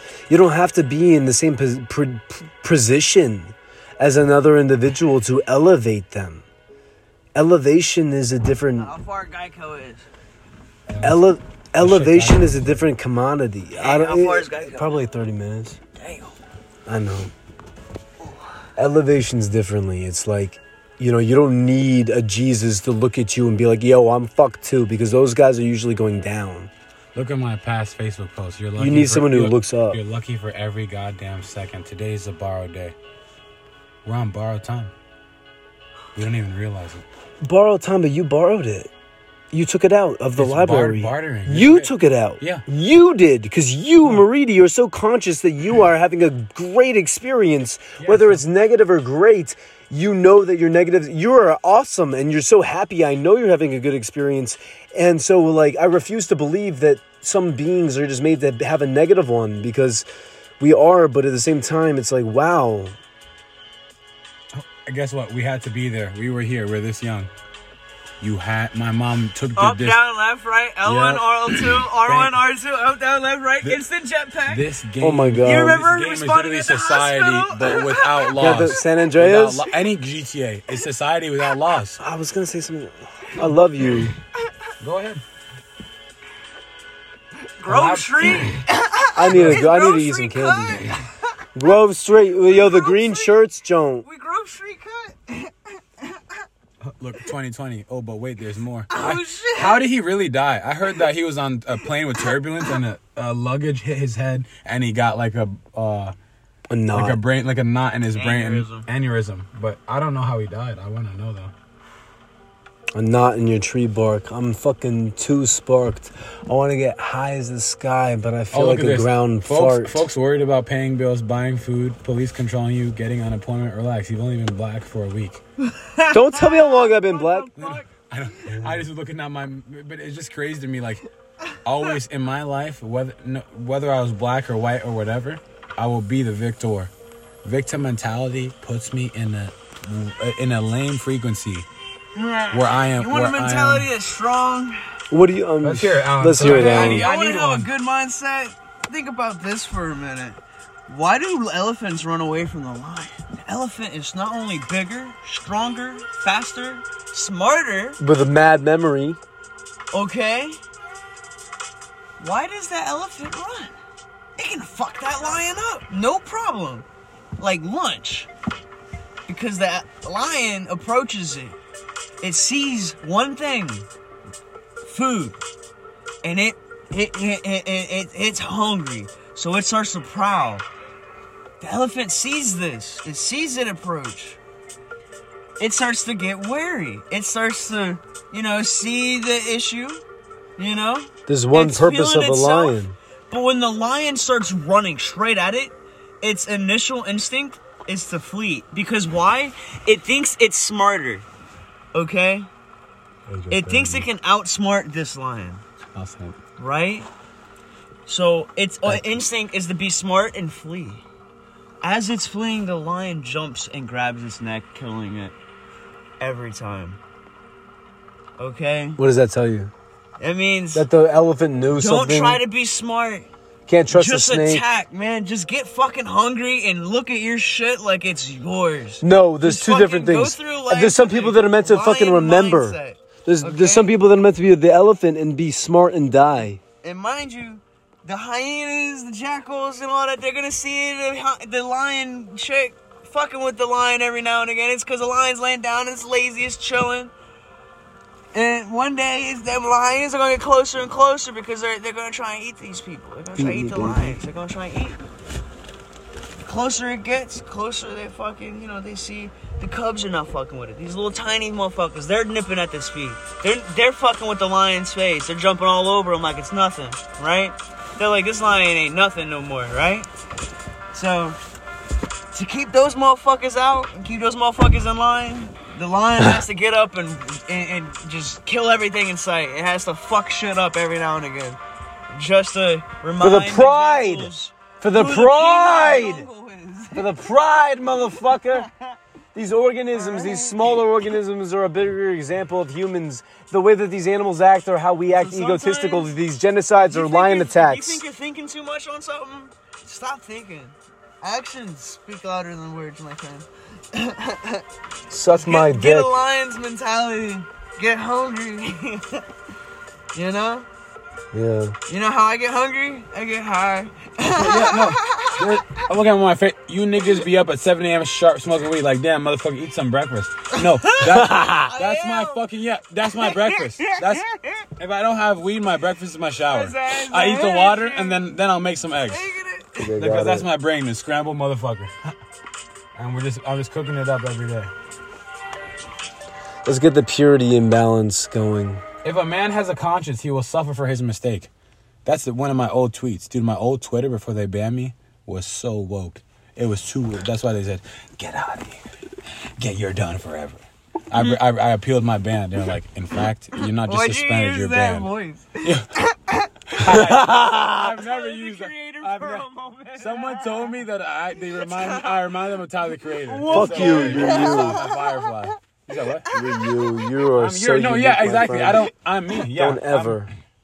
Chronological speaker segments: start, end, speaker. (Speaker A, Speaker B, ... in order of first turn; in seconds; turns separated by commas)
Speaker A: 0.3-6.4, Speaker A: 7.3-8.9, Speaker B: 8.8-10.1, Speaker C: 10.9-11.2, Speaker A: 11.0-15.8, Speaker C: 11.8-12.8, Speaker B: 13.7-15.0, Speaker B: 16.0-16.4, Speaker A: 16.9-17.3, Speaker A: 18.8-26.7, Speaker C: 27.1-33.0, Speaker A: 28.8-30.0, Speaker C: 34.0-34.9, Speaker C: 36.1-37.0, Speaker A: 37.4-38.9, Speaker A: 39.5-60.1, Speaker C: 40.4-42.6, Speaker C: 48.0-48.4, Speaker A: 60.6-63.0, Speaker C: 64.5-67.3, Speaker C: 68.2-70.0, Speaker B: 69.6-74.7, Speaker C: 70.8-72.4, Speaker C: 74.5-82.0, Speaker A: 75.0-75.8, Speaker B: 75.4-78.4, Speaker A: 78.4-79.7, Speaker A: 82.0-84.1, Speaker C: 84.8-85.2, Speaker B: 87.6-91.4, Speaker C: 87.7-88.6, Speaker A: 89.2-90.8, Speaker C: 89.3-89.7, Speaker A: 91.5-94.0, Speaker B: 92.3-93.4, Speaker B: 94.0-96.3, Speaker C: 96.8-106.2, Speaker B: 98.9-99.8, Speaker A: 106.7-107.2, Speaker C: 106.9-111.5, Speaker B: 108.1-108.9, Speaker A: 112.9-120.1, Speaker C: 118.5-125.4, Speaker B: 125.6-127.9, Speaker A: 126.1-127.5, Speaker C: 127.6-131.0, Speaker C: 131.6-136.9, Speaker C: 137.4-141.7, Speaker B: 142.2-144.8, Speaker C: 142.5-143.9, Speaker A: 145.1-147.1, Speaker C: 145.6-147.7, Speaker B: 146.4-158.0, Speaker A: 158.0-159.2, Speaker B: 159.9-160.6, Speaker B: 162.2-163.7, Speaker B: 164.4-166.9, Speaker B: 167.4-168.3, Speaker B: 169.3-171.6, Speaker B: 172.2-173.9, Speaker B: 174.8-175.4, Speaker B: 176.2-180.7, Speaker B: 181.6-184.4, Speaker B: 185.6-190.0, Speaker B: 190.6-201.3, Speaker A: 191.3-192.9, Speaker B: 201.9-202.5, Speaker C: 203.3-204.1, Speaker B: 203.5-205.6, Speaker C: 205.9-206.4, Speaker B: 206.6-207.1, Speaker B: 208.1-211.0, Speaker B: 211.8-215.3, Speaker B: 216.2-217.0, Speaker B: 218.4-219.0, Speaker A: 219.0-219.7, Speaker B: 220.2-220.9, Speaker A: 220.7-222.4, Speaker B: 221.7-223.3, Speaker A: 223.7-224.7, Speaker B: 223.9-233.9, Speaker A: 229.0-236.6, Speaker B: 236.8-247.1, Speaker B: 248.3-255.0, Speaker A: 253.4-254.2, Speaker B: 256.4-270.1, Speaker B: 270.9-271.4, Speaker B: 272.3-281.6, Speaker B: 282.1-287.2, Speaker A: 283.2-286.3, Speaker A: 286.9-288.7, Speaker B: 288.3-289.0, Speaker A: 289.3-298.0, Speaker B: 289.9-290.9, Speaker B: 295.1-296.1, Speaker B: 296.8-304.6, Speaker A: 305.1-306.1, Speaker B: 305.4-309.3, Speaker B: 310.1-310.7, Speaker A: 311.3-311.8, Speaker B: 311.9-315.8, Speaker C: 314.2-324.3, Speaker B: 320.5-322.4, Speaker A: 321.1-321.5, Speaker B: 323.1-324.7, Speaker C: 324.8-329.3, Speaker B: 326.5-328.2, Speaker B: 329.1-329.9, Speaker A: 329.8-330.5, Speaker C: 329.9-331.9, Speaker C: 333.0-334.7, Speaker A: 336.6-338.8, Speaker C: 339.0-341.5, Speaker C: 342.1-348.8, Speaker C: 349.6-355.1, Speaker B: 353.6-356.8, Speaker C: 356.7-359.5, Speaker A: 356.8-357.9, Speaker B: 357.8-360.8, Speaker C: 360.0-366.3, Speaker B: 361.5-362.2, Speaker B: 363.2-367.0, Speaker A: 363.5-364.8, Speaker A: 366.3-368.8, Speaker C: 367.4-370.3, Speaker A: 369.5-370.3